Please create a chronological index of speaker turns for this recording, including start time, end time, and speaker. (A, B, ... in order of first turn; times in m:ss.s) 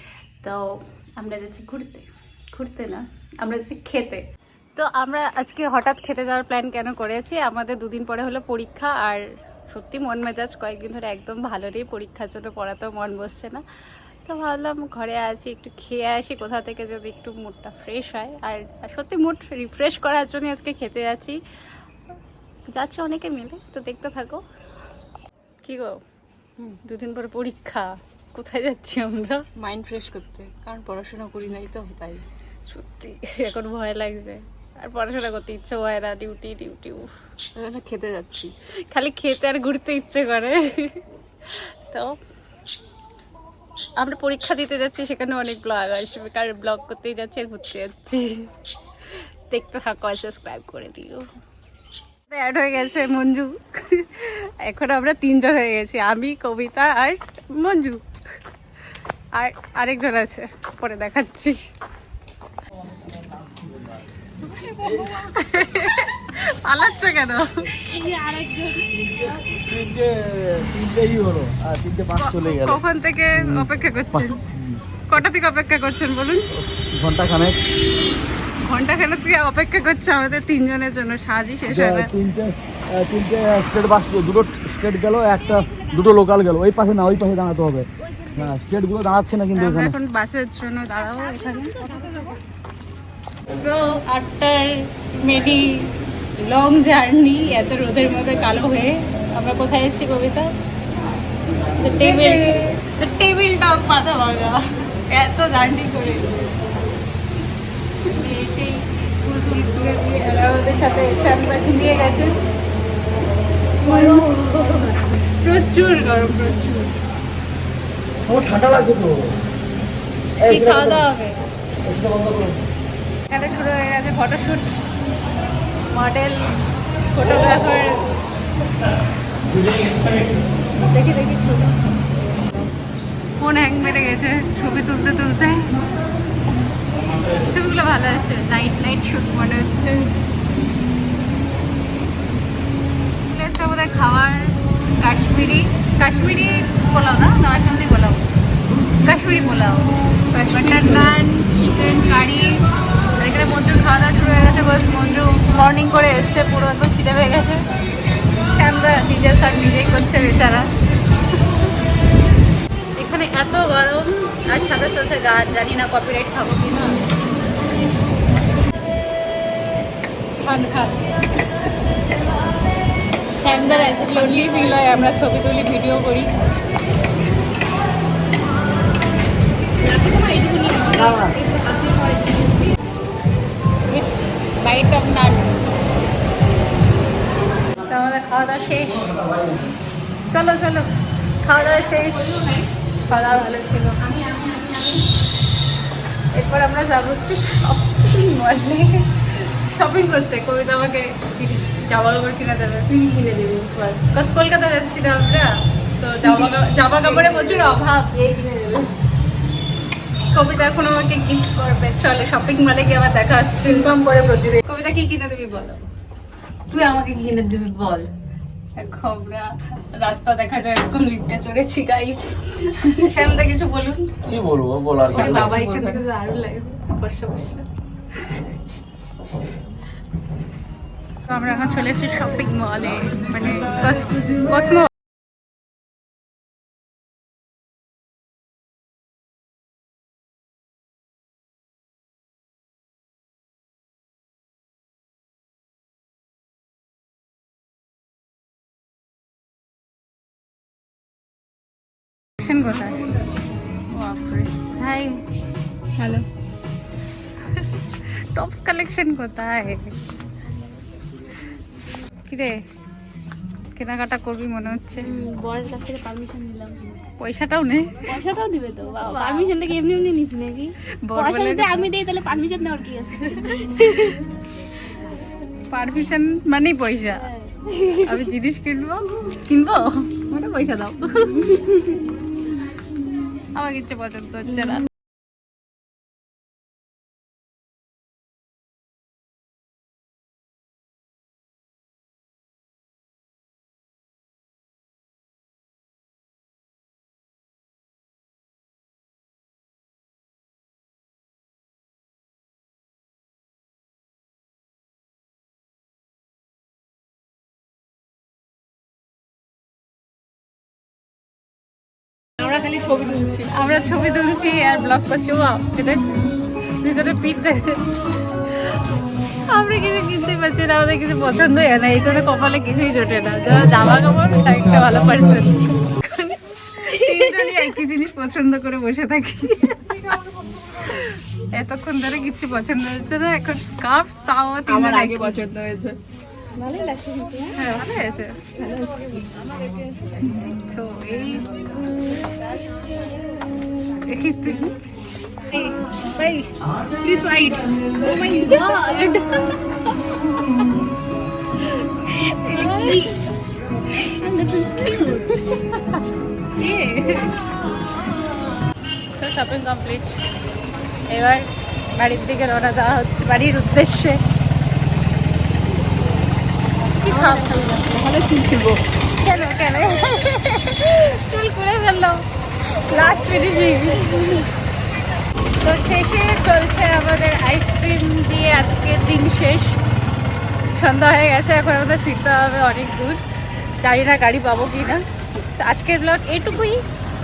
0:00.4-0:04.2 A
0:04.8-0:13.6 A
0:14.2-0:21.4 A
0:22.7-0:24.4 A
0:25.6-0:26.0 A
0:26.8-0:29.4 A
0:29.6-0:32.2 B
0:32.7-0:37.1 A
0:37.6-0:38.5 B
0:38.9-0:42.2 A
0:44.0-0:48.5 A
0:49.1-0:51.3 A
0:52.3-0:58.0 A
0:59.3-1:01.6 A
1:03.2-1:03.9 C
1:05.0-1:07.8 A
1:07.7-1:09.6 B
1:09.0-1:12.8 C
1:12.2-1:14.4 A
1:13.3-1:14.8 C
1:15.1-1:16.5 A
1:16.6-1:17.6 C
1:18.6-1:22.1 A
1:21.7-1:29.9 C
1:29.5-1:32.1 A
1:33.5-1:40.5 A
1:41.8-1:46.4 A
1:41.8-1:42.7 B
1:47.4-1:52.3 A
1:53.8-1:57.0 A
1:53.8-1:55.1 B
1:58.3-1:59.3 C
2:00.4-2:01.0 C
2:00.4-2:01.4 A
2:01.8-2:02.6 C
2:03.3-2:04.7 A
2:05.9-2:08.1 A
2:10.8-2:11.8 A
2:13.4-2:15.8 A
2:17.4-2:20.1 A
2:23.2-2:28.3 A
2:29.0-2:32.6 A
2:30.5-2:31.1 B
2:33.2-2:37.6 A
2:38.6-2:40.7 A
2:43.0-2:47.0 A
2:50.3-2:51.1 A
2:53.4-2:56.3 A
2:53.9-2:54.2 B
2:59.8-3:02.6 B
3:01.0-3:01.4 C
3:03.9-3:05.6 A
3:07.8-3:09.4 A
3:09.2-3:09.7 C
3:10.3-3:10.9 A
3:11.4-3:14.2 A
3:14.0-3:15.0 B
3:16.3-3:28.2 A
3:23.1-3:23.8 B
3:26.2-3:28.9 B
3:30.3-3:35.9 A
3:36.7-3:38.1 B
3:38.7-3:44.1 A
3:44.2-3:45.7 C
3:45.1-3:47.6 A
3:45.5-3:46.0 B
3:51.3-3:54.9 A
4:12.4-4:13.1 A
4:13.9-4:15.2 A
4:16.0-4:16.2 B
4:18.3-4:19.9 A
4:22.2-4:22.6 A
4:23.8-4:25.1 A
4:25.0-4:27.0 B
4:27.2-4:28.1 A
4:28.0-4:34.2 B
4:29.0-4:29.6 A
4:31.0-4:31.9 A
4:35.7-4:37.3 A
4:37.4-4:38.2 B
4:37.9-4:42.0 A
4:43.5-4:44.9 A
5:12.4-5:13.4 B
5:13.4-5:16.1 A
5:16.8-5:17.9 A
5:18.4-5:18.7 A
5:19.5-5:30.2 A
5:26.8-5:27.8 B
5:30.8-5:35.4 A
5:34.7-5:36.0 B
5:36.6-5:37.6 B
5:37.5-5:38.4 A
5:38.6-5:40.2 B
5:40.2-5:41.5 A
5:44.0-5:44.8 A
5:45.5-5:49.4 A
5:48.0-5:49.5 B
5:51.6-5:53.1 A
5:52.5-5:53.2 B
5:53.9-5:56.0 A
5:56.6-5:57.3 A
5:59.1-6:00.2 A
6:01.1-6:04.2 A
6:07.0-6:07.8 A
6:07.0-6:08.8 B
6:09.1-6:12.2 A
6:12.8-6:14.5 A
6:15.6-6:19.8 A
6:20.7-6:23.2 A
6:23.8-6:26.8 A